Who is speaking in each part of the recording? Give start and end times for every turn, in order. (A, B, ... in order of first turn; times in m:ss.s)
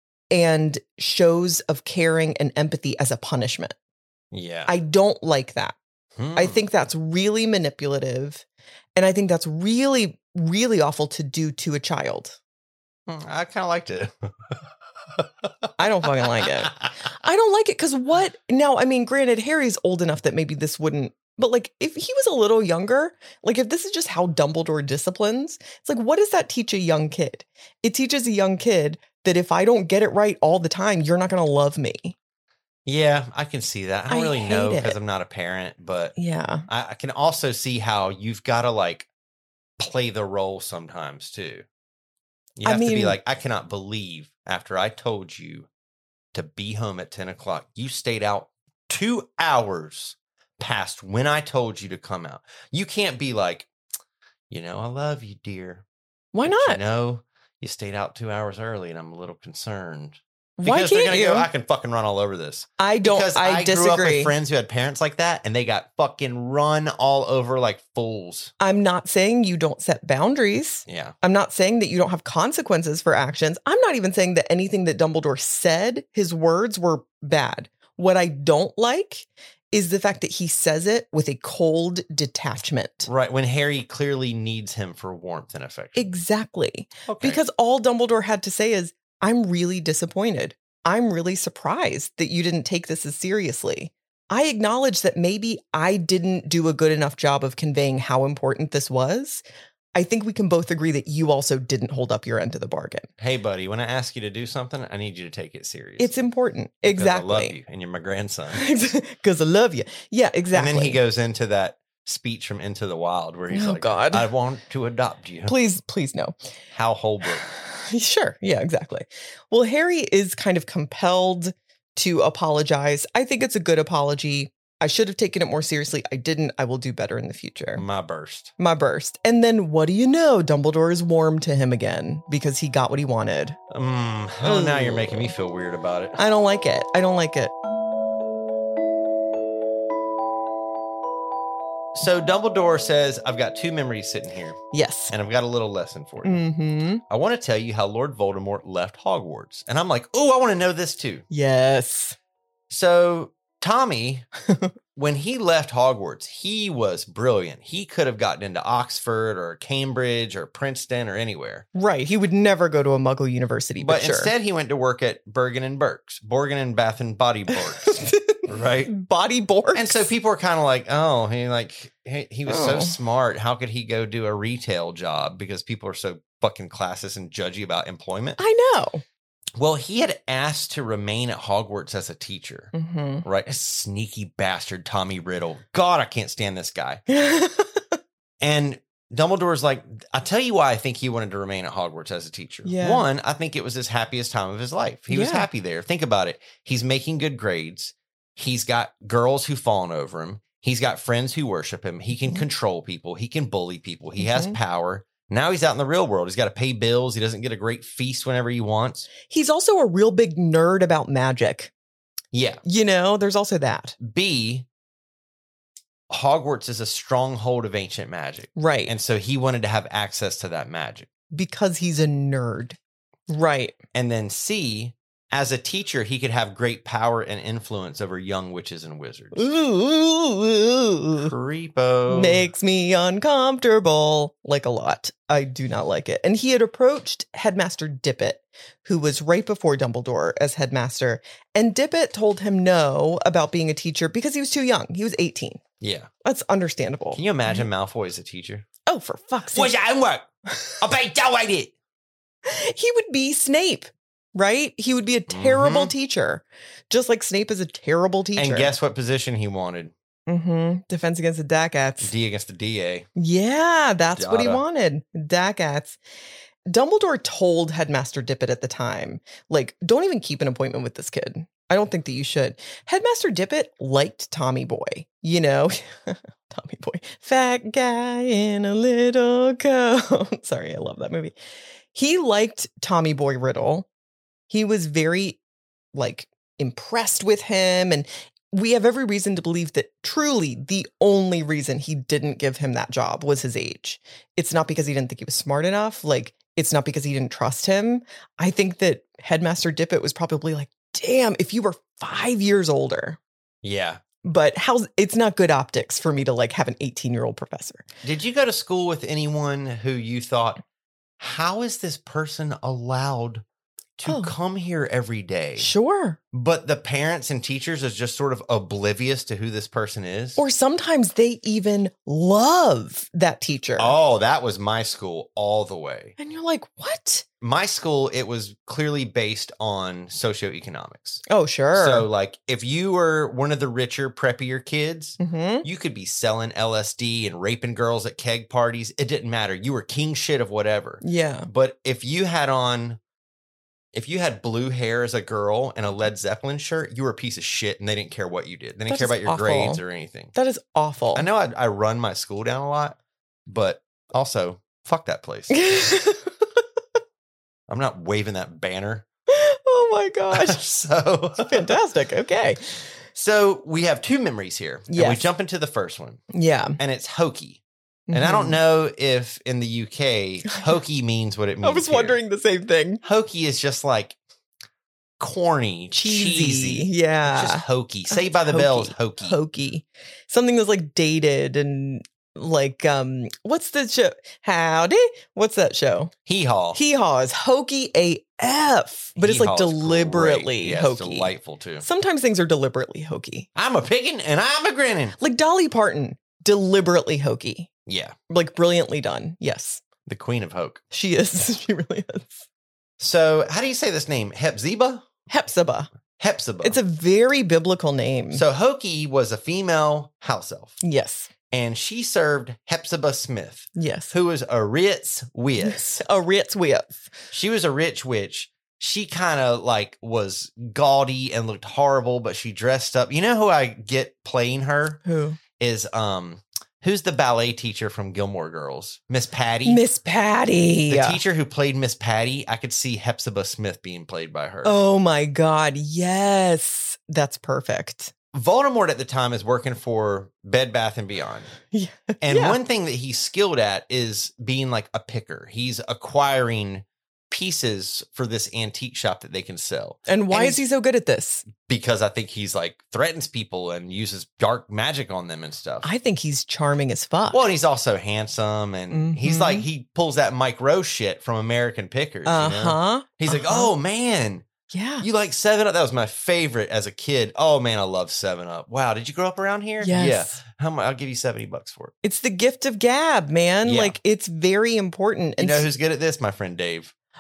0:00.3-0:03.7 A
0:04.3-0:04.7 B
0:04.7-0:05.8 A
0:06.2-0:06.6 B
0:06.3-0:08.4 A
0:09.0-0:12.4 A
0:13.1-0:14.6 B
0:15.2-0:15.5 B
0:15.8-0:32.2 A
0:16.4-0:16.9 B
0:32.8-0:36.2 B
0:34.1-0:35.0 A
0:36.2-0:36.7 A
0:36.7-0:39.1 B
0:39.8-0:41.6 B
0:42.6-0:45.7 B
0:42.6-0:43.2 A
0:46.3-0:53.7 B
0:54.5-0:55.8 B
0:56.3-0:56.8 A
0:56.4-1:08.5 B
1:00.6-1:01.5 A
1:02.8-1:04.3 A
1:08.6-1:23.1 A
1:10.9-1:11.1 B
1:23.0-1:26.1 B
1:25.9-1:39.4 A
1:27.1-1:27.4 B
1:39.9-1:43.1 A
1:43.2-1:46.1 B
1:46.0-1:47.6 A
1:46.8-1:48.6 B
1:48.5-1:51.0 A
1:50.5-1:55.5 B
1:53.5-1:54.3 A
1:55.5-1:56.4 A
1:56.7-1:57.5 B
1:57.4-2:07.8 A
2:07.8-2:08.5 B
2:08.6-2:13.6 A
2:13.7-2:16.2 B
2:14.4-2:15.3 A
2:16.2-2:17.5 A
2:21.9-2:24.6 B
2:24.7-2:25.1 A
2:25.1-2:26.4 B
2:26.2-2:27.0 A
2:27.1-2:31.2 B
2:31.3-2:32.2 A
2:32.7-2:34.2 B
2:35.0-2:41.6 B
2:41.7-2:44.3 A
2:43.8-2:47.9 B
2:47.5-2:50.1 A
2:48.5-2:48.9 B
2:49.7-2:58.4 B
2:52.5-2:53.0 A
2:58.4-2:59.0 A
2:59.6-3:02.7 B
3:02.7-3:03.2 A
3:03.2-3:07.0 B
3:07.1-3:08.0 A
3:08.4-3:29.1 B
3:12.6-3:13.0 A
3:15.1-3:15.5 A
3:24.2-3:24.6 A
3:29.3-3:31.7 A
3:32.3-3:32.6 B
3:32.6-3:34.0 A
3:34.0-3:34.6 B
3:36.1-3:41.1 B
3:38.6-3:38.9 A
3:41.3-3:42.8 A
3:43.3-3:43.8 A
3:43.9-3:49.4 B
3:49.3-3:51.3 A
3:51.2-3:52.5 B
3:52.1-4:05.6 A
4:05.8-4:06.1 B
4:06.2-4:07.7 A
4:07.1-4:08.7 B
4:08.9-4:09.7 A
4:09.5-4:10.3 B
4:10.8-4:11.7 B
4:12.4-4:18.7 A
4:15.3-4:15.9 B
4:18.4-4:19.9 B
4:20.3-4:22.1 A
4:22.0-4:23.1 B
4:23.2-4:26.0 A
4:24.1-4:24.6 B
4:26.6-4:41.3 A
4:41.9-4:43.9 A
4:44.5-4:45.4 A
4:45.9-5:03.2 A
5:03.6-5:04.0 B
5:04.2-5:07.8 A
5:08.0-5:10.6 B
5:11.2-5:13.4 B
5:14.0-5:15.7 B
5:14.0-5:14.3 A
5:15.6-5:16.2 A
5:16.3-5:20.4 B
5:20.4-5:23.9 A
5:23.8-5:26.1 B
5:26.2-5:27.2 A
5:27.4-5:31.2 B
5:31.3-5:32.0 A
5:31.7-5:43.0 B
5:35.2-5:35.7 A
5:41.0-5:41.5 A
5:43.9-5:50.3 B
5:48.9-5:49.8 A
5:50.3-5:51.2 A
5:51.1-5:55.6 B
5:55.5-5:56.6 A
5:57.7-5:59.1 B
5:59.3-6:00.6 A
6:00.3-6:01.7 B
6:01.4-6:02.8 A
6:03.1-6:06.2 B
6:04.9-6:05.3 A
6:06.3-6:06.8 A
6:06.8-6:07.6 B
6:08.1-6:08.6 A
6:08.1-6:12.2 B
6:11.6-6:13.0 A
6:13.0-6:14.2 B
6:15.2-6:19.4 B
6:15.9-6:26.1 A
6:26.3-6:26.8 B
6:26.7-6:33.5 A
6:29.2-6:31.8 B
6:33.5-6:35.2 B
6:35.2-6:37.7 A
6:37.9-6:38.1 B
6:38.3-6:39.8 A
6:40.0-6:40.8 B
6:40.9-6:42.4 A
6:43.0-6:45.1 B
6:45.3-6:45.9 A
6:46.2-6:46.8 B
6:46.6-6:48.4 A
6:48.3-6:50.8 B
6:50.8-6:51.3 A
6:51.5-6:55.8 B
6:53.8-6:54.1 A
6:55.6-6:57.0 A
6:57.3-7:05.0 B
7:05.0-7:05.4 A
7:05.6-7:09.8 B
7:09.6-7:11.2 A
7:10.9-7:14.8 B
7:14.6-7:18.1 A
7:18.3-7:21.5 B
7:21.7-7:22.6 A
7:22.2-7:30.6 B
7:30.1-7:31.5 A
7:31.5-7:35.9 B
7:35.8-7:37.4 A
7:37.3-7:44.4 B
7:38.9-7:39.6 A
7:42.2-7:43.7 A
7:44.7-7:45.0 A
7:45.0-7:51.9 B
7:49.8-7:50.4 A
7:52.0-7:55.6 A
7:53.6-7:54.0 B
7:55.4-7:56.9 B